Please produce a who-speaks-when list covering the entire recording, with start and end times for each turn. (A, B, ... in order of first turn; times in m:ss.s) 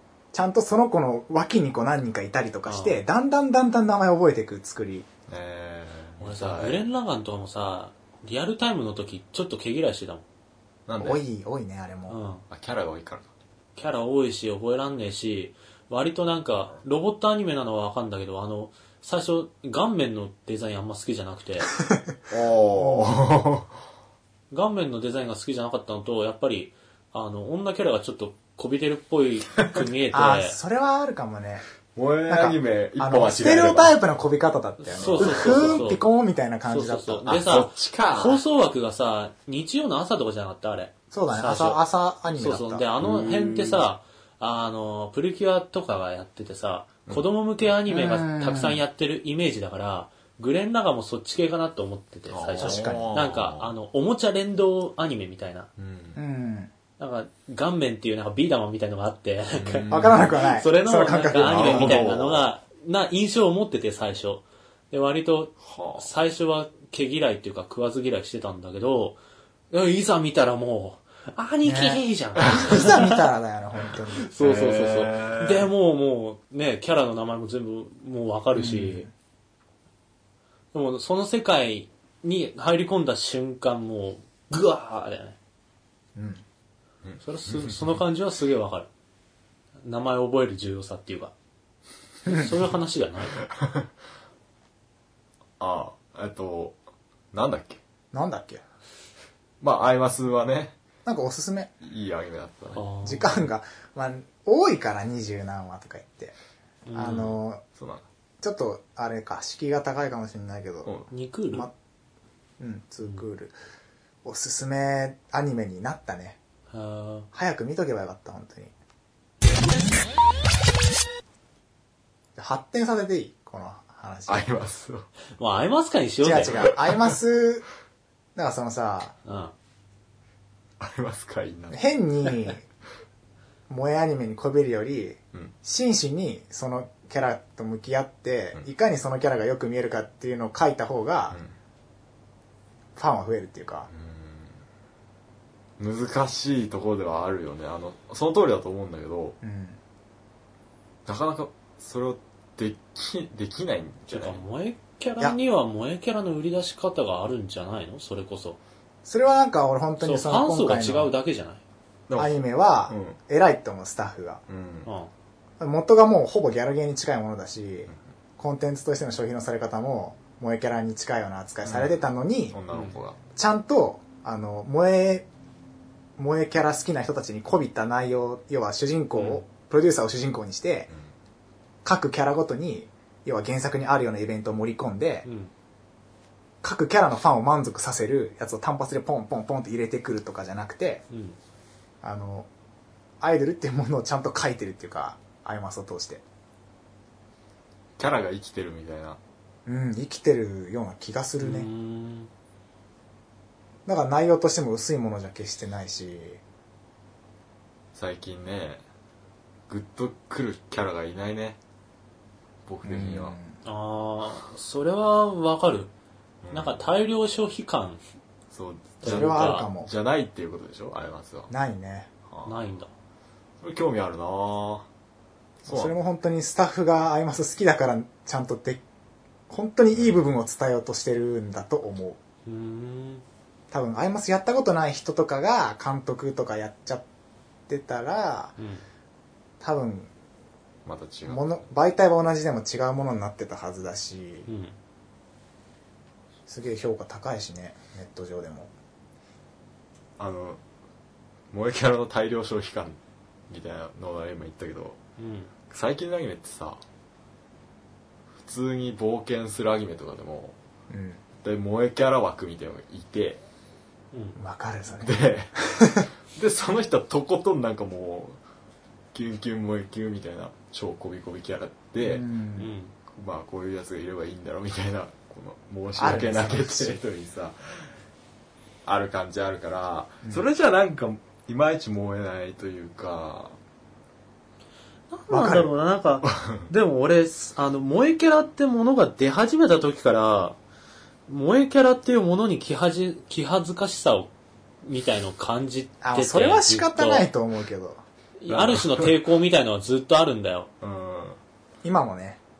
0:00.3-0:05.1 A
0:02.7-0:03.0 B
0:05.3-0:06.8 C
0:06.2-0:10.2 B
0:10.9-0:11.2 C
0:11.0-0:12.2 A
0:12.1-0:12.4 B
0:12.5-0:13.3 C
0:13.8-0:21.7 B
0:21.8-0:22.2 A
0:22.3-0:23.7 C
0:22.7-0:23.2 A
0:24.5-0:30.6 B
0:30.1-0:31.6 A
0:32.0-0:34.0 C
0:32.3-0:37.3 A
0:34.8-0:36.0 B
0:35.0-0:35.9 C
0:36.7-0:41.8 B
0:37.3-0:38.4 C
0:41.1-0:42.9 A
0:42.4-0:55.7 B
0:43.0-0:43.8 C
0:47.9-0:48.8 A
0:52.3-0:53.7 C
0:52.6-0:53.2 A
0:55.8-0:56.2 C
0:56.2-0:56.7 A
0:57.0-1:09.2 B
0:59.5-1:00.5 C
0:59.9-1:02.1 A
1:01.4-1:02.5 C
1:05.6-1:06.1 C
1:09.7-1:13.2 B
1:11.6-1:14.3 A
1:12.4-1:12.9 C
1:14.1-1:19.1 B
1:14.4-1:15.7 C
1:18.6-1:19.1 A
1:20.7-1:25.4 B
1:26.2-1:26.4 A
1:27.0-1:28.0 C
1:27.2-1:28.9 B
1:29.8-1:31.3 B
1:32.3-1:33.4 B
1:33.4-1:33.9 C
1:35.6-1:36.8 C
1:37.3-1:37.8 C
1:38.1-1:38.6 A
1:39.6-1:40.8 C
1:41.1-1:41.7 A
1:41.8-1:42.9 C
1:42.7-1:43.4 B
1:43.0-1:46.3 A
1:46.9-1:47.4 B
1:47.0-1:47.6 A
1:47.8-1:48.0 C
1:48.4-1:50.9 A
1:50.8-1:51.1 C
1:51.1-1:51.7 B
1:52.6-1:53.5 A
1:54.2-1:56.4 A
1:56.7-1:57.3 B
1:57.3-1:58.7 A
2:02.4-2:04.5 A
2:04.3-2:05.1 C
2:05.4-2:06.7 B
2:06.2-2:07.7 A
2:06.5-2:07.0 C
2:08.4-2:09.1 A
2:09.3-2:09.5 B
2:10.8-2:11.8 C
2:11.7-2:12.6 A
2:13.7-2:21.4 A
2:23.0-2:23.9 A
2:23.9-2:24.6 C
2:25.8-2:29.4 C
2:29.4-2:29.8 A
2:31.1-2:34.4 C
2:34.1-2:38.6 B
2:39.0-2:41.1 A
2:40.0-2:41.6 B
2:42.1-2:42.4 C
2:42.2-2:44.4 A
2:42.9-2:43.2 C
2:44.5-2:44.9 C
2:44.8-2:45.1 B
2:45.6-2:52.6 A
2:51.6-2:53.2 C
2:52.7-2:53.0 B
2:53.3-2:55.3 A
2:56.2-3:00.9 A
3:01.8-3:05.3 A
3:05.2-3:05.5 B
3:06.6-3:11.0 A
3:11.1-3:11.4 B
3:12.0-3:12.5 A
3:13.2-3:16.2 A
3:18.0-3:19.2 C
3:19.7-3:21.7 A
3:21.4-3:22.3 B
3:23.9-3:26.4 A
3:28.0-3:28.8 C
3:29.7-3:31.6 C
3:32.7-3:33.4 C
3:32.8-3:33.6 A
3:33.6-3:35.9 B
3:36.4-3:36.9 C
3:36.5-3:38.0 B
3:38.5-3:41.5 C
3:39.0-3:39.7 B
3:39.0-3:39.9 A
3:41.5-3:42.1 A
3:42.3-3:42.6 C
3:42.4-3:42.9 B
3:43.6-3:44.9 C
3:45.6-3:46.0 C
3:45.7-3:48.8 A
3:49.5-3:52.2 A
3:52.5-3:53.2 B
3:53.7-3:57.0 A
3:57.7-3:58.5 A
3:58.6-3:58.8 B
3:59.6-4:00.1 A
4:00.9-4:01.6 C
4:01.3-4:04.5 A
4:04.5-4:04.8 B
4:06.5-4:08.7 A
4:10.2-4:10.6 C
4:11.5-4:13.0 C
4:13.5-4:15.0 C
4:15.2-4:15.5 B
4:15.7-4:16.8 C
4:18.4-4:20.6 C
4:20.9-4:21.2 A
4:21.4-4:23.4 C
4:24.1-4:24.4 B
4:24.4-4:25.2 A
4:25.0-4:25.7 C
4:25.7-4:26.1 A
4:26.3-4:28.4 C
4:29.1-4:32.2 C
4:32.0-4:32.7 A
4:32.6-4:32.9 B
4:33.1-4:37.9 C
4:36.0-4:37.0 A
4:38.8-4:43.6 C
4:45.1-4:50.6 B
4:45.3-4:45.7 A
4:46.2-4:46.7 C
4:51.3-4:54.3 B
4:54.8-4:57.3 B
4:56.0-4:58.0 A
4:58.4-5:00.7 B
4:58.5-4:59.1 C
5:00.8-5:01.4 C
5:01.8-5:02.4 A